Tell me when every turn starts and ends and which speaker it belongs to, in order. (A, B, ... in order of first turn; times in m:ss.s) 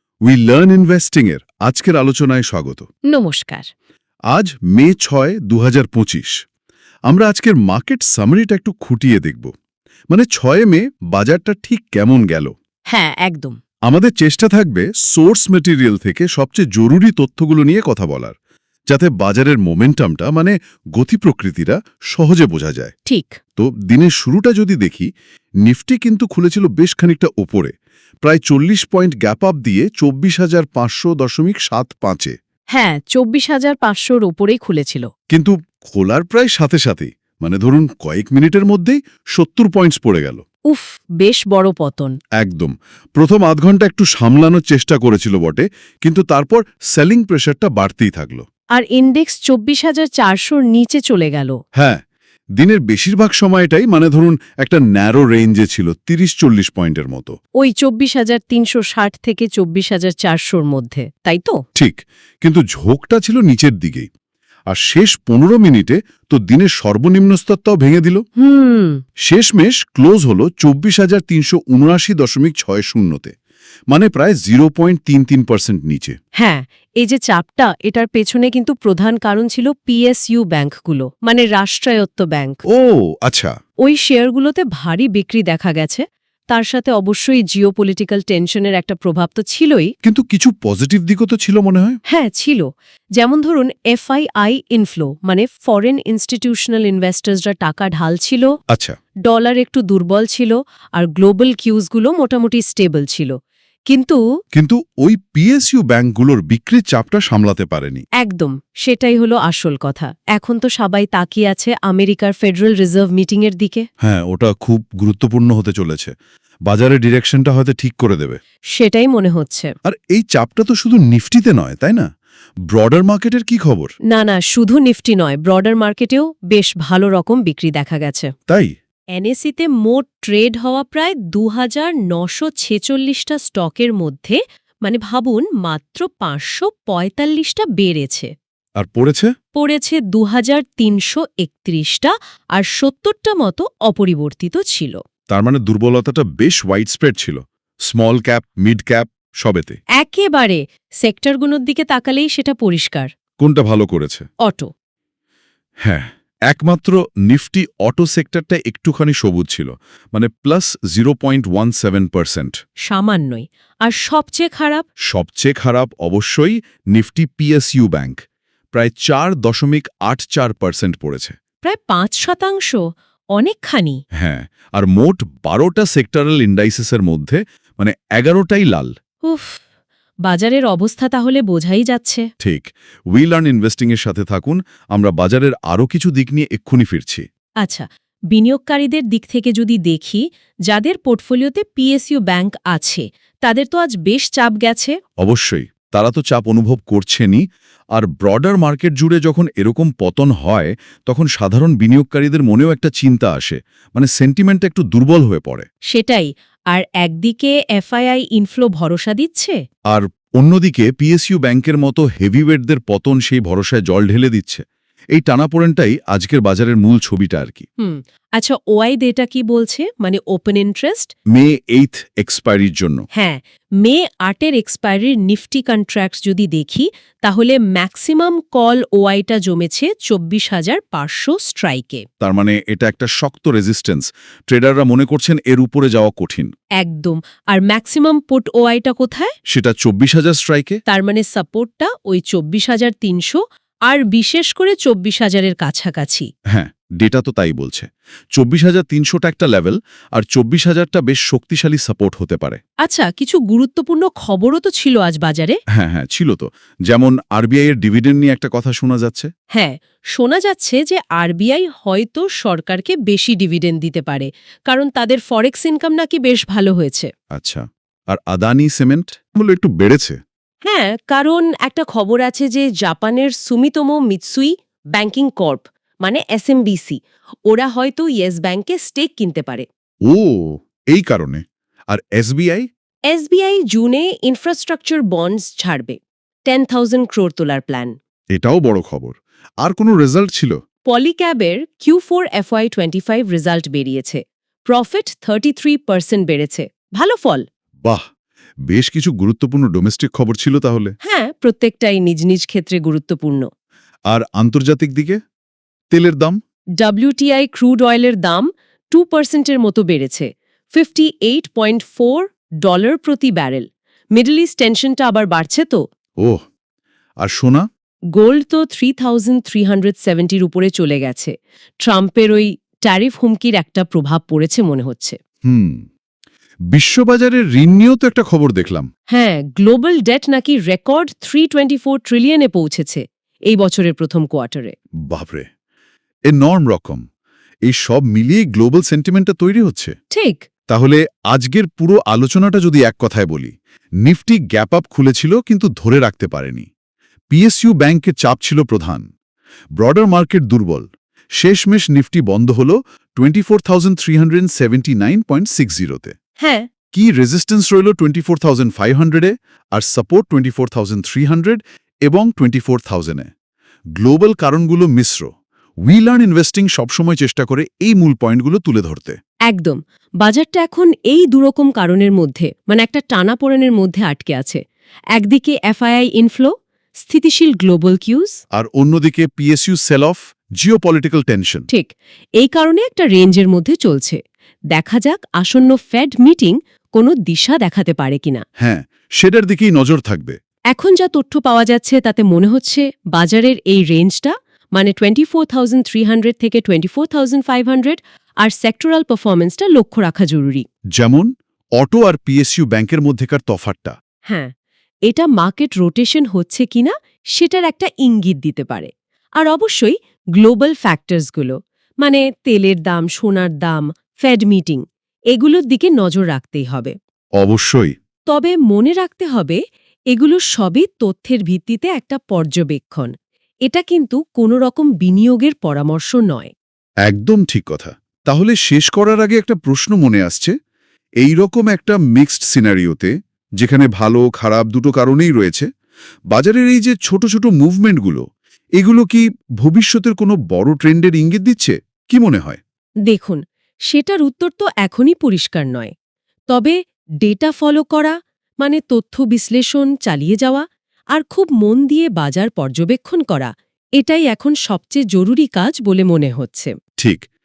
0:00.2-0:02.9 A
0:03.1-0:03.7 B
0:04.3-0:06.4 A
0:07.1-0:09.5 A
0:10.1-0:12.5 A
0:12.9-0:13.6 B
0:13.9-0:18.3 A
0:18.9-0:22.9 A
0:23.1-0:23.4 B
0:23.6-0:25.1 A
0:25.6-0:32.4 A
0:32.7-0:35.1 B
0:35.3-0:40.4 A
0:40.7-0:42.2 B
0:42.4-0:48.4 A
0:48.7-0:51.6 B
0:51.8-0:52.0 A
0:52.6-0:57.4 A
0:57.6-1:01.6 B
1:01.8-1:04.1 A
1:04.7-1:08.2 A
1:08.4-1:09.0 B
1:09.2-1:13.3 A
1:13.9-1:16.2 A
1:16.4-1:22.6 B
1:22.7-1:23.5 A
1:23.8-1:29.9 B
1:30.0-1:32.0 A
1:32.1-1:38.5 B
1:38.7-1:39.0 A
1:39.2-1:43.4 B
1:43.9-1:44.2 B
1:44.5-1:48.0 A
1:48.2-1:53.9 B
1:54.0-1:56.1 A
1:56.7-1:58.4 A
1:58.7-1:59.7 B
1:59.8-2:02.1 A
2:02.7-2:03.9 A
2:04.1-2:08.3 B
2:08.5-2:08.7 A
2:09.1-2:18.3 B
2:18.8-2:19.3 A
2:19.5-2:25.0 B
2:25.3-2:29.8 A
2:30.0-2:33.1 B
2:33.4-2:34.2 A
2:34.4-2:34.7 B
2:35.8-2:42.6 A
2:42.8-2:44.8 B
2:45.0-2:51.3 A
2:51.6-2:52.8 B
2:53.3-2:54.0 B
2:54.2-2:58.9 A
2:59.2-2:59.6 B
3:00.2-3:02.3 B
3:02.4-3:07.2 A
3:07.6-3:15.0 B
3:15.2-3:17.4 A
3:18.0-3:25.7 A
3:25.9-3:29.6 B
3:29.9-3:34.6 A
3:35.1-3:37.6 A
3:37.8-3:41.1 B
3:41.3-3:43.0 A
3:43.1-3:52.0 B
3:52.2-3:56.5 A
3:56.8-3:59.3 B
3:59.5-4:00.8 A
4:00.9-4:06.3 B
4:06.5-4:12.6 A
4:12.8-4:15.6 B
4:15.7-4:19.3 A
4:19.5-4:27.1 B
4:27.3-4:30.2 A
4:30.6-4:39.6 B
4:40.1-4:42.7 A
4:43.1-4:48.0 B
4:48.3-4:50.6 A
4:50.9-4:57.4 B
4:58.7-5:00.9 A
5:01.0-5:03.5 B
5:04.1-5:05.2 A
5:05.9-5:06.4 A
5:06.8-5:15.8 B
5:17.2-5:17.7 A
5:18.1-5:25.2 B
5:25.4-5:25.8 A
5:26.7-5:28.9 A
5:29.1-5:34.7 B
5:35.1-5:35.5 A
5:36.3-5:37.0 A
5:37.6-5:39.9 A
5:40.1-5:40.4 B
5:40.7-5:43.5 A
5:44.0-5:46.7 A
5:47.3-5:49.0 A
5:49.8-5:56.1 A
5:56.4-5:56.7 B
5:56.9-6:03.3 A
6:04.0-6:05.3 A
6:05.8-6:09.2 A
6:09.5-6:14.6 B
6:15.1-6:18.4 B
6:18.5-6:21.7 A
6:21.7-6:24.2 B
6:24.7-6:28.4 B
6:28.6-6:30.4 A
6:30.7-6:40.6 B
6:41.0-6:44.0 A
6:45.1-6:56.9 B
6:57.4-6:57.9 A
6:58.3-6:59.6 B
7:00.1-7:03.1 B
7:03.6-7:06.5 B
7:07.0-7:10.5 A
7:11.2-7:15.7 A
7:16.3-7:18.2 A
7:18.8-7:22.6 A
7:23.1-7:25.9 B
7:26.5-7:36.7 B
7:37.0-7:37.2 A